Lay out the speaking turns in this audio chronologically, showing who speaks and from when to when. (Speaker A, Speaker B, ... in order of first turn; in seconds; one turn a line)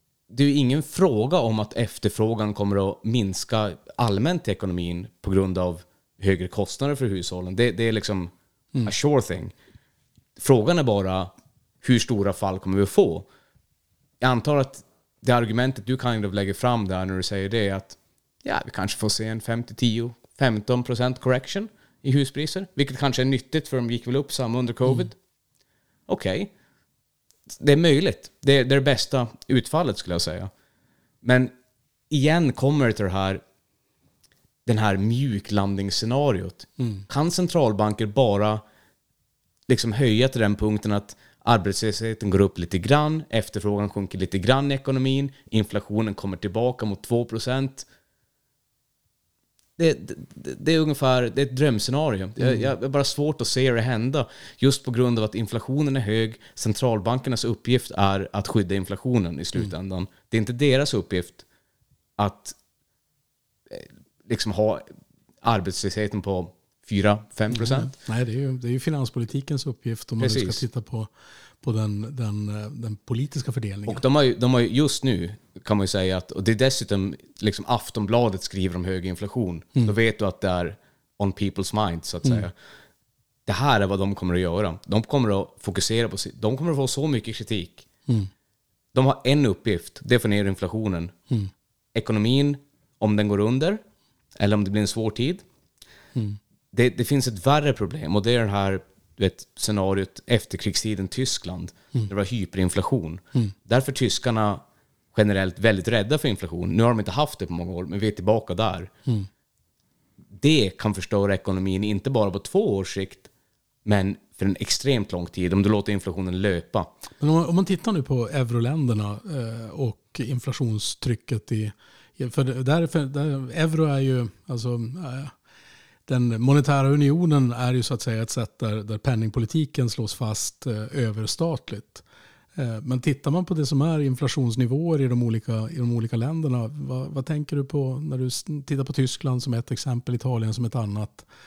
Speaker A: 0.3-8.3
Speaker A: 8.8-9.5
Speaker A: 10.4-13.3
Speaker A: 14.2-25.2
Speaker A: 26.1-26.5
Speaker A: 27.5-30.5
Speaker A: 31.2-31.5
Speaker A: 32.1-33.4
Speaker A: 34.7-38.6
Speaker B: 36.8-37.1
Speaker A: 39.7-47.9
Speaker A: 49.8-61.4
Speaker B: 52.4-52.7
Speaker A: 62.2-62.6
Speaker A: 63.7-64.9
Speaker A: 65.4-68.0
Speaker B: 67.5-71.1
Speaker A: 70.2-70.6
Speaker B: 71.6-74.0
Speaker A: 73.9-82.5
Speaker A: 83.5-87.9
Speaker A: 88.9-91.1
Speaker A: 91.9-93.8
Speaker A: 94.4-95.5
Speaker A: 96.7-108.9
Speaker A: 110.3-113.3
Speaker A: 113.8-116.9
Speaker B: 117.2-125.3
Speaker B: 126.1-132.0
Speaker B: 132.6-141.3